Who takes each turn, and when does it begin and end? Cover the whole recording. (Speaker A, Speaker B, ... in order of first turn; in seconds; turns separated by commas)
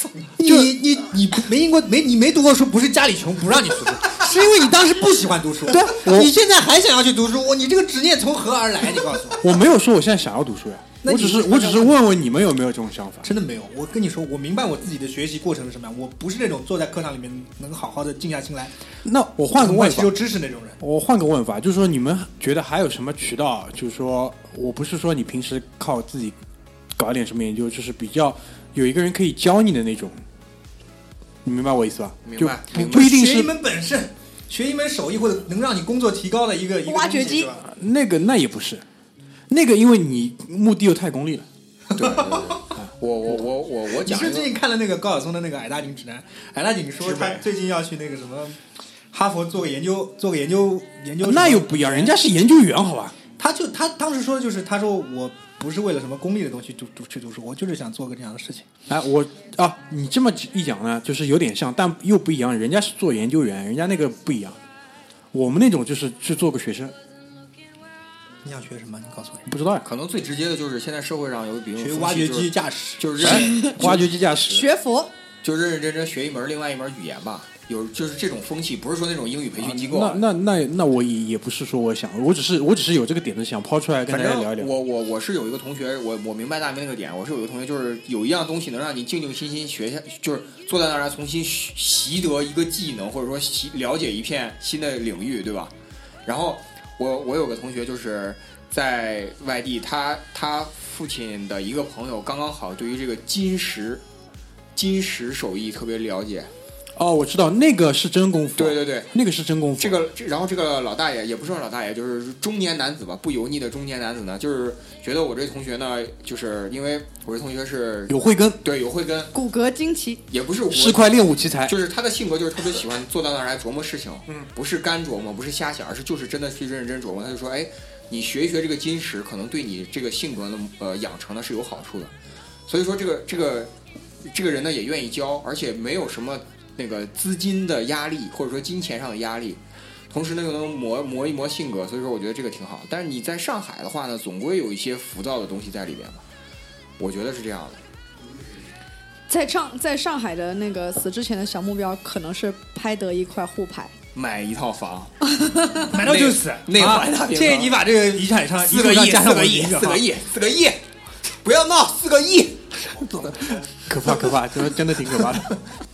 Speaker A: 0.4-9.5, Speaker B: 0.4-0.8, Speaker B: 5.6-6.3, Speaker B: 9.4-13.3, Speaker A: 11.0-11.9, Speaker A: 13.2-18.7, Speaker B: 19.0-20.2, Speaker A: 19.6-20.8, Speaker B: 20.8-26.4, Speaker B: 26.9-30.2, Speaker B: 31.4-33.5, Speaker C: 32.2-33.1, Speaker A: 32.7-37.6, Speaker D: 36.8-37.5, Speaker B: 37.5-38.8, Speaker B: 39.5-41.5, Speaker A: 41.9-42.5, Speaker C: 42.0-44.5, Speaker A: 43.9-48.6, Speaker C: 47.0-47.5, Speaker A: 49.1-52.1, Speaker B: 51.2-53.2, Speaker A: 53.4-58.6, Speaker B: 58.9-64.6, Speaker B: 65.3-66.9, Speaker A: 68.4-69.5, Speaker B: 69.5-69.9, Speaker C: 69.8-74.0, Speaker A: 71.8-74.0, Speaker B: 73.2-74.7, Speaker D: 74.5-75.1, Speaker C: 75.4-80.2, Speaker B: 79.6-84.7, Speaker C: 84.1-95.7, Speaker C: 96.2-104.0, Speaker C: 104.7-106.5, Speaker B: 107.0-110.0, Speaker C: 108.6-109.1, Speaker C: 109.8-119.3, Speaker B: 118.1-118.6, Speaker D: 119.3-120.2, Speaker C: 120.3-121.1, Speaker B: 120.7-121.8, Speaker C: 121.7-132.1, Speaker C: 132.7-133.7, Speaker C: 134.2-146.2, Speaker C: 147.0-147.8, Speaker D: 149.3-153.9, Speaker C: 154.1-155.1, Speaker D: 155.2-155.9, Speaker A: 155.8-160.0, Speaker C: 155.9-157.8, Speaker C: 158.6-160.8, Speaker C: 161.4-162.7, Speaker B: 163.1-165.6